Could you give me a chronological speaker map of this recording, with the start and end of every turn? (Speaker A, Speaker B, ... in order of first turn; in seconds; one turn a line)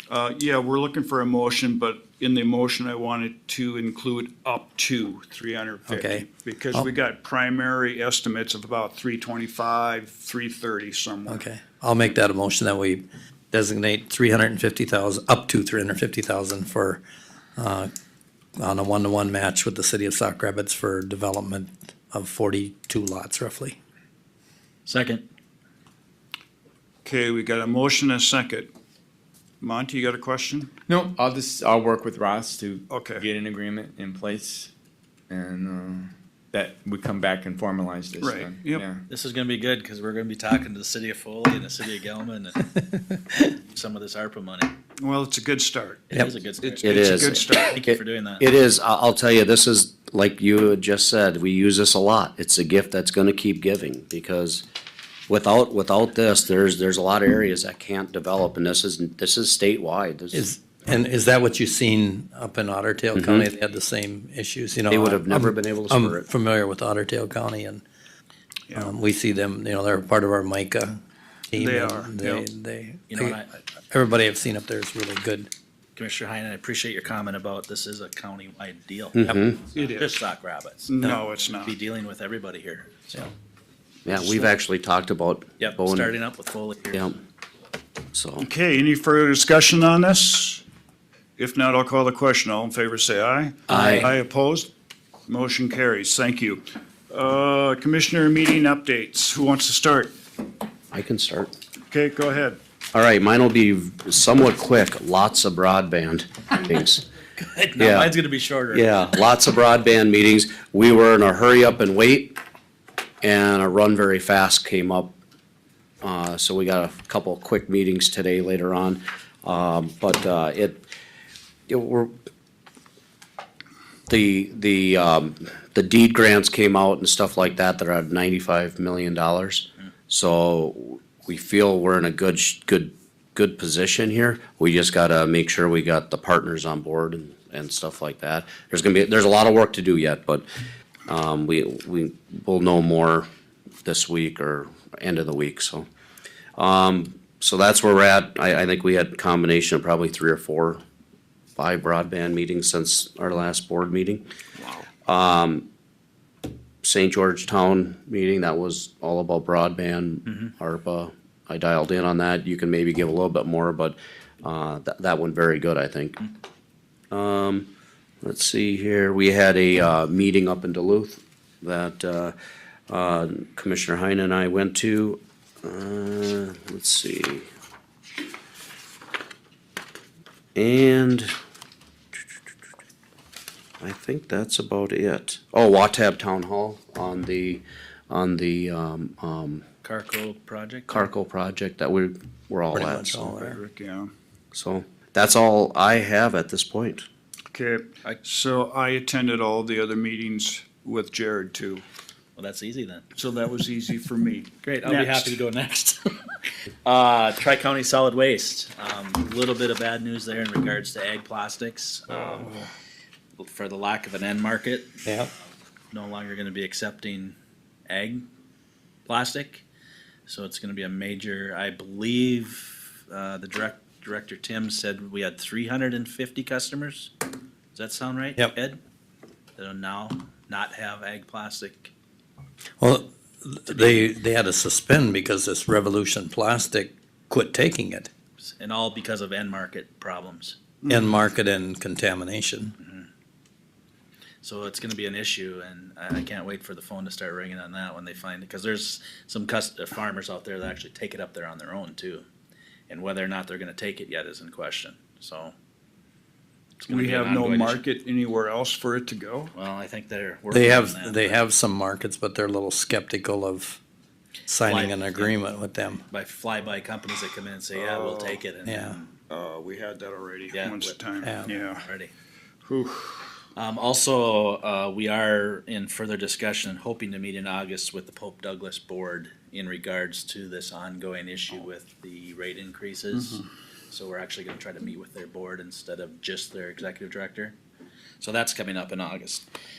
Speaker A: 0.1-11.4
Speaker B: 5.9-6.9
Speaker B: 11.3-17.0
Speaker B: 17.6-17.9
Speaker B: 18.6-23.8
Speaker C: 24.9-25.2
Speaker A: 27.0-28.7
Speaker A: 29.6-30.7
Speaker D: 30.9-34.7
Speaker A: 32.9-33.2
Speaker D: 35.3-39.0
Speaker A: 38.2-38.8
Speaker C: 39.1-42.7
Speaker C: 43.3-44.7
Speaker A: 45.0-47.8
Speaker C: 46.1-48.4
Speaker E: 46.8-54.6
Speaker E: 55.3-60.4
Speaker B: 60.3-67.8
Speaker E: 63.1-63.5
Speaker E: 64.9-66.3
Speaker B: 68.7-71.0
Speaker B: 71.5-73.4
Speaker A: 71.5-72.5
Speaker C: 73.1-73.5
Speaker B: 73.9-75.5
Speaker C: 76.0-83.3
Speaker E: 79.1-79.6
Speaker A: 79.7-80.2
Speaker A: 80.9-81.8
Speaker E: 84.0-86.1
Speaker C: 84.1-84.5
Speaker C: 85.6-87.1
Speaker E: 88.1-88.5
Speaker A: 88.4-90.6
Speaker A: 91.4-94.7
Speaker B: 93.7-94.1
Speaker E: 93.7-94.0
Speaker A: 95.3-100.1
Speaker E: 100.9-101.5
Speaker A: 101.9-102.6
Speaker E: 102.9-107.0
Speaker C: 107.4-108.8
Speaker E: 107.8-108.1
Speaker E: 108.7-112.4
Speaker E: 113.2-115.1
Speaker E: 116.0-120.8
Speaker E: 121.7-122.2
Speaker E: 124.1-140.4
Speaker E: 141.1-143.3
Speaker E: 143.8-145.8
Speaker E: 146.6-150.8
Speaker E: 151.6-154.2
Speaker E: 155.1-155.7
Speaker E: 156.8-166.2
Speaker E: 167.1-167.7
Speaker E: 168.2-172.3
Speaker E: 172.9-177.5
Speaker E: 180.5-181.3
Speaker E: 183.8-189.6
Speaker C: 189.8-191.1
Speaker E: 190.9-193.4
Speaker B: 192.7-193.6
Speaker A: 193.4-194.1
Speaker E: 194.5-197.1
Speaker A: 197.5-201.8
Speaker C: 202.3-203.0
Speaker A: 203.2-205.4
Speaker C: 204.6-212.7
Speaker C: 213.4-215.1
Speaker B: 215.0-215.3
Speaker C: 215.9-217.3
Speaker C: 217.9-218.3
Speaker C: 219.1-219.6
Speaker C: 220.2-227.1
Speaker C: 227.7-228.8
Speaker C: 229.6-231.9
Speaker B: 232.8-238.1
Speaker C: 233.7-234.0
Speaker C: 238.4-240.6
Speaker A: 240.8-241.1
Speaker B: 240.9-242.7
Speaker C: 242.8-243.1
Speaker C: 244.4-252.2
Speaker C: 252.9-255.5
Speaker C: 256.8-257.8
Speaker A: 256.9-259.5
Speaker C: 259.5-261.4
Speaker B: 260.5-263.8
Speaker B: 264.5-266.0
Speaker C: 264.6-265.3
Speaker C: 266.1-269.1
Speaker A: 267.7-268.4
Speaker B: 268.6-269.0
Speaker A: 269.3-271.9
Speaker C: 270.5-270.9
Speaker B: 271.2-271.5
Speaker C: 271.4-272.1
Speaker A: 272.6-273.2
Speaker C: 273.6-287.6
Speaker C: 288.2-289.4